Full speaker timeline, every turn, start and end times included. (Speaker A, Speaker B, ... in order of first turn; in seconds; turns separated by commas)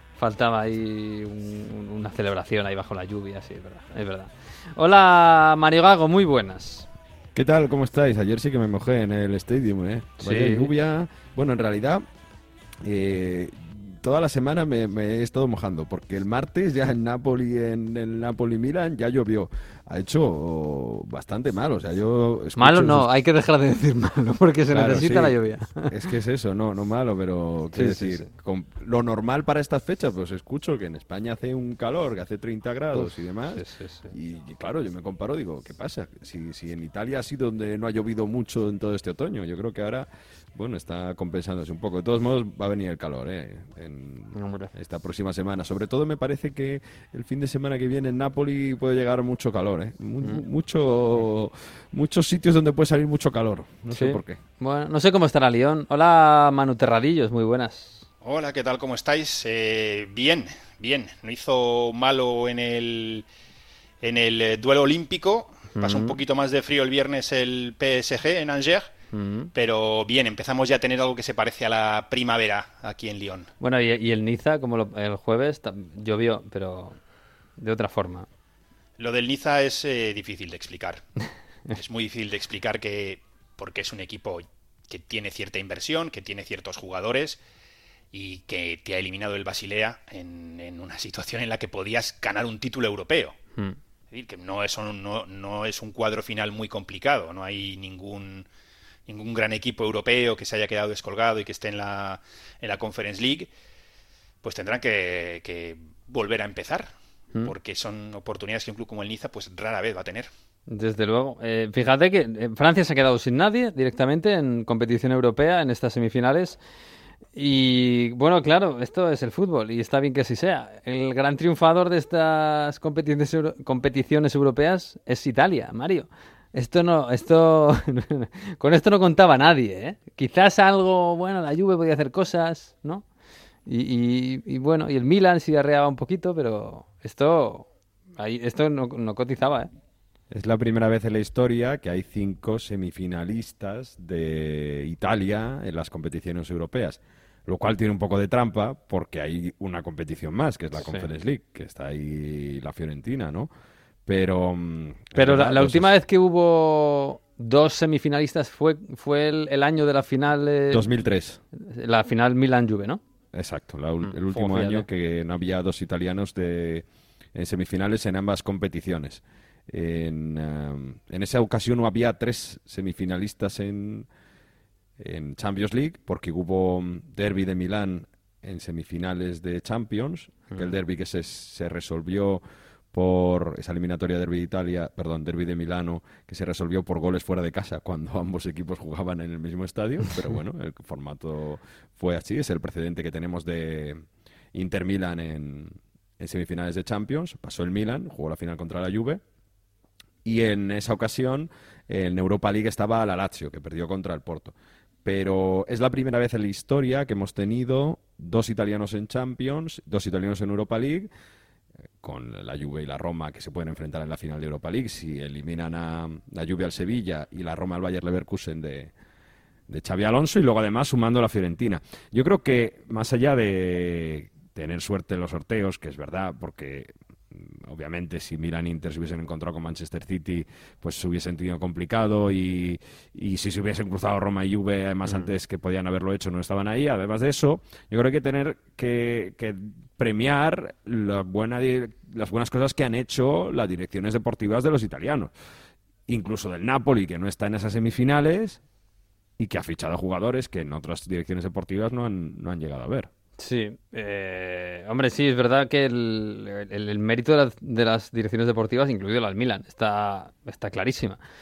Speaker A: 0.2-6.9, Speaker B: 7.3-12.1, Speaker A: 10.2-10.7, Speaker B: 12.8-23.1, Speaker A: 22.6-25.9, Speaker B: 24.7-54.4, Speaker A: 27.7-28.3, Speaker A: 32.9-34.1, Speaker A: 44.3-44.7, Speaker A: 53.9-58.0, Speaker C: 58.2-63.2, Speaker C: 64.0-68.9, Speaker A: 65.8-66.2, Speaker A: 69.1-69.5, Speaker C: 69.5-73.5, Speaker A: 73.6-77.0, Speaker A: 77.6-78.3, Speaker C: 79.0-81.0, Speaker C: 81.7-87.4, Speaker C: 88.1-93.4, Speaker C: 94.1-98.5, Speaker C: 99.1-103.5, Speaker C: 104.4-106.9, Speaker C: 107.4-110.3, Speaker A: 110.7-116.6, Speaker A: 117.3-133.0, Speaker A: 133.7-139.7, Speaker B: 140.3-153.5, Speaker A: 150.8-151.1, Speaker B: 154.1-155.9, Speaker A: 155.2-160.8, Speaker B: 160.7-161.4, Speaker A: 161.5-163.0, Speaker B: 163.3-174.1, Speaker A: 164.0-164.8, Speaker B: 175.0-194.0, Speaker B: 194.5-199.2, Speaker B: 200.2-211.1, Speaker B: 212.0-218.9, Speaker B: 219.7-245.3, Speaker B: 246.1-248.6, Speaker B: 249.4-253.1, Speaker A: 253.4-261.2